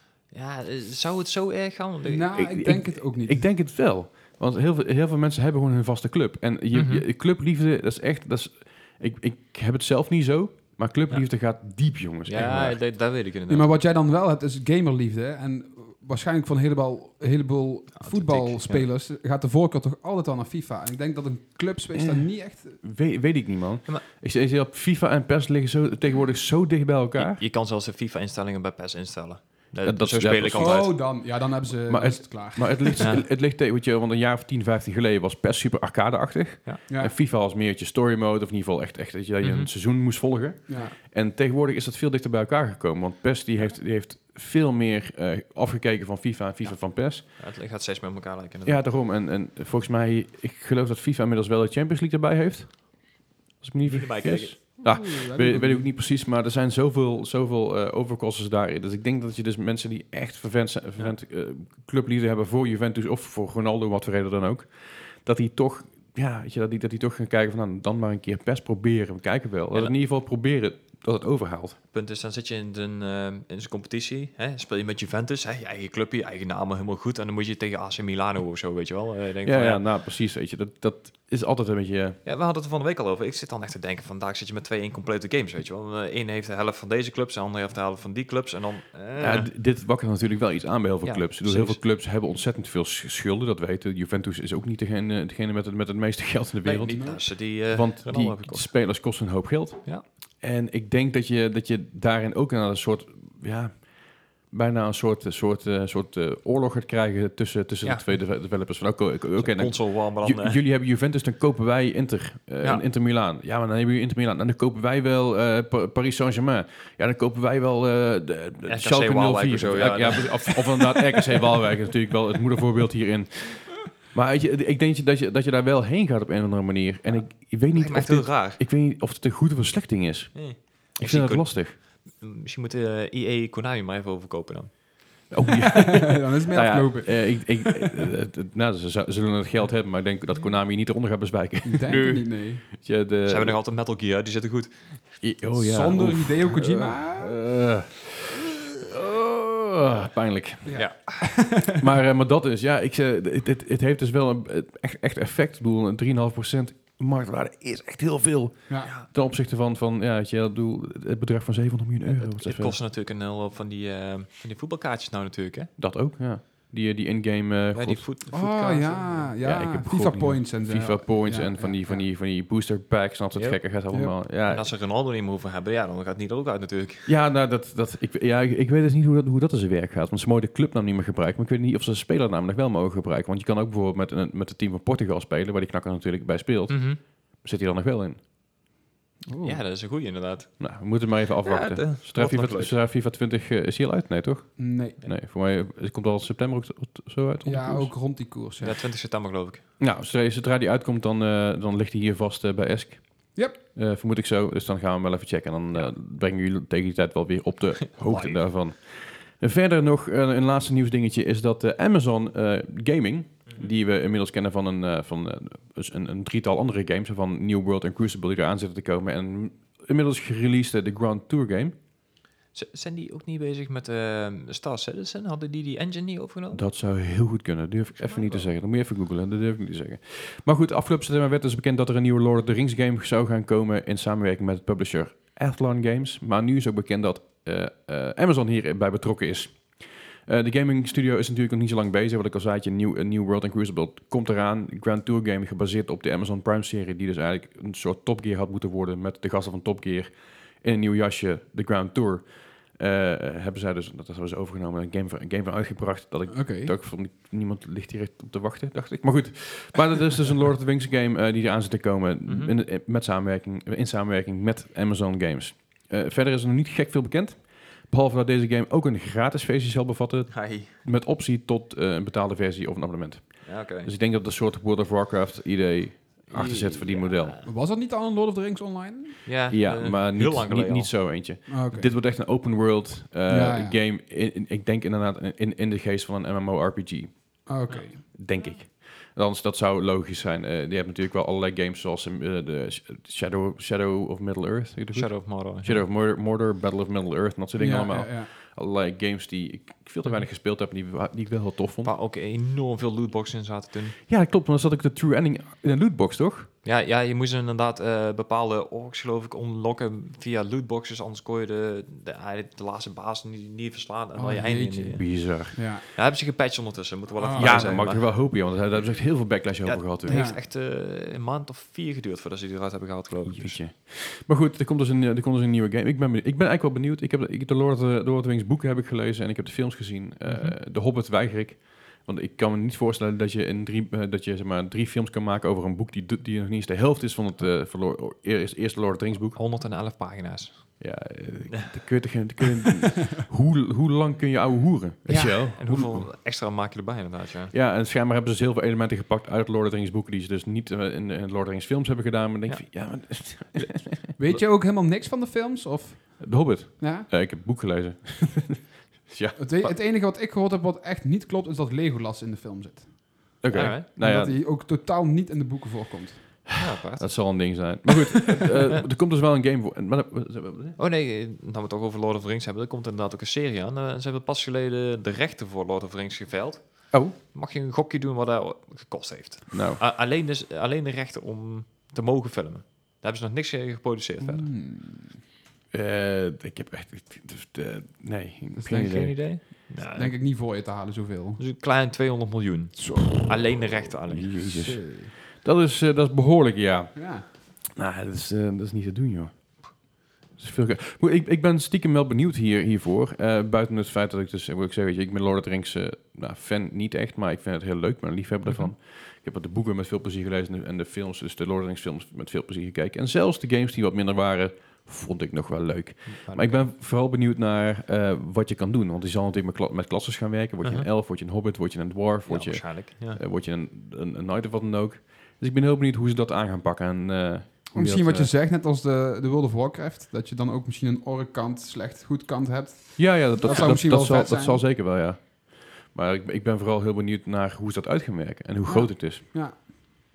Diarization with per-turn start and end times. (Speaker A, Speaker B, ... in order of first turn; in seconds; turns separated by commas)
Speaker A: 0.3-2.7, Speaker B: 2.0-3.5, Speaker C: 2.4-12.8, Speaker A: 6.7-7.0, Speaker A: 11.1-13.8, Speaker B: 13.5-22.8, Speaker A: 17.9-18.9, Speaker C: 21.9-27.4, Speaker A: 27.1-31.0, Speaker C: 29.8-47.3, Speaker B: 30.6-33.1, Speaker A: 33.0-33.2, Speaker B: 36.9-37.2, Speaker A: 39.4-39.7, Speaker B: 40.7-41.0, Speaker A: 46.6-48.8, Speaker C: 48.6-71.8, Speaker A: 53.8-54.7, Speaker B: 54.8-55.9, Speaker A: 69.7-70.0, Speaker A: 71.9-80.0, Speaker C: 79.4-82.2, Speaker A: 82.2-89.5, Speaker C: 89.2-131.8, Speaker A: 91.0-91.8, Speaker A: 96.6-100.0, Speaker B: 96.9-97.3, Speaker A: 107.8-110.6, Speaker A: 112.6-112.8, Speaker A: 118.7-121.4, Speaker A: 127.0-128.6, Speaker A: 130.3-135.4, Speaker C: 135.3-143.6, Speaker B: 136.0-137.8, Speaker A: 140.3-140.6, Speaker B: 141.6-142.6, Speaker A: 143.2-145.2, Speaker C: 145.2-148.3, Speaker B: 145.5-147.5, Speaker C: 148.9-162.8, Speaker B: 150.7-151.7, Speaker A: 150.8-151.5, Speaker A: 162.1-165.7, Speaker C: 165.8-168.1, Speaker A: 167.7-169.5, Speaker B: 168.3-172.0, Speaker C: 169.4-174.7, Speaker A: 173.3-173.9, Speaker B: 173.9-174.2, Speaker A: 174.4-177.1, Speaker C: 177.1-188.2, Speaker A: 186.7-187.0, Speaker B: 189.3-189.6, Speaker A: 189.4-192.8, Speaker C: 190.6-197.9, Speaker B: 194.6-195.0, Speaker B: 197.4-198.8, Speaker A: 198.6-199.6, Speaker C: 199.8-221.8, Speaker A: 208.0-208.5, Speaker A: 222.5-226.9, Speaker C: 226.5-277.4, Speaker A: 228.0-228.5, Speaker B: 256.3-256.7, Speaker A: 262.3-262.6, Speaker A: 270.3-270.7, Speaker A: 273.4-273.9, Speaker A: 276.3-277.5, Speaker B: 276.3-279.2, Speaker A: 279.3-281.4, Speaker C: 279.5-301.9, Speaker B: 281.5-281.9, Speaker B: 283.3-283.8, Speaker B: 287.5-288.0, Speaker A: 294.9-295.9, Speaker B: 297.6-298.3, Speaker A: 301.8-304.0, Speaker C: 304.1-306.5, Speaker A: 306.6-323.6, Speaker B: 314.1-315.8, Speaker C: 315.0-315.8, Speaker B: 317.2-317.9, Speaker C: 317.4-320.3, Speaker B: 320.1-320.4, Speaker C: 323.3-339.4, Speaker A: 330.3-330.5, Speaker A: 339.3-341.6, Speaker C: 340.8-346.1, Speaker A: 345.1-347.6, Speaker C: 347.5-354.1, Speaker A: 352.5-353.5, Speaker B: 354.2-357.1, Speaker C: 356.2-359.5, Speaker B: 359.4-366.6, Speaker C: 363.4-364.4, Speaker A: 363.5-363.9, Speaker A: 366.6-367.8, Speaker C: 367.0-370.8, Speaker A: 370.8-384.5, Speaker C: 376.9-377.2, Speaker C: 379.5-379.8, Speaker B: 384.2-385.2, Speaker C: 385.7-389.2, Speaker B: 388.5-391.4, Speaker A: 388.7-390.2, Speaker A: 391.4-394.6, Speaker B: 392.8-393.6, Speaker C: 393.9-428.3, Speaker B: 394.4-395.1, Speaker B: 396.9-397.3, Speaker A: 408.4-408.7, Speaker A: 416.1-416.7, Speaker A: 422.3-423.2, Speaker B: 427.7-434.6, Speaker C: 433.0-439.6, Speaker A: 433.4-433.8, Speaker B: 438.7-440.0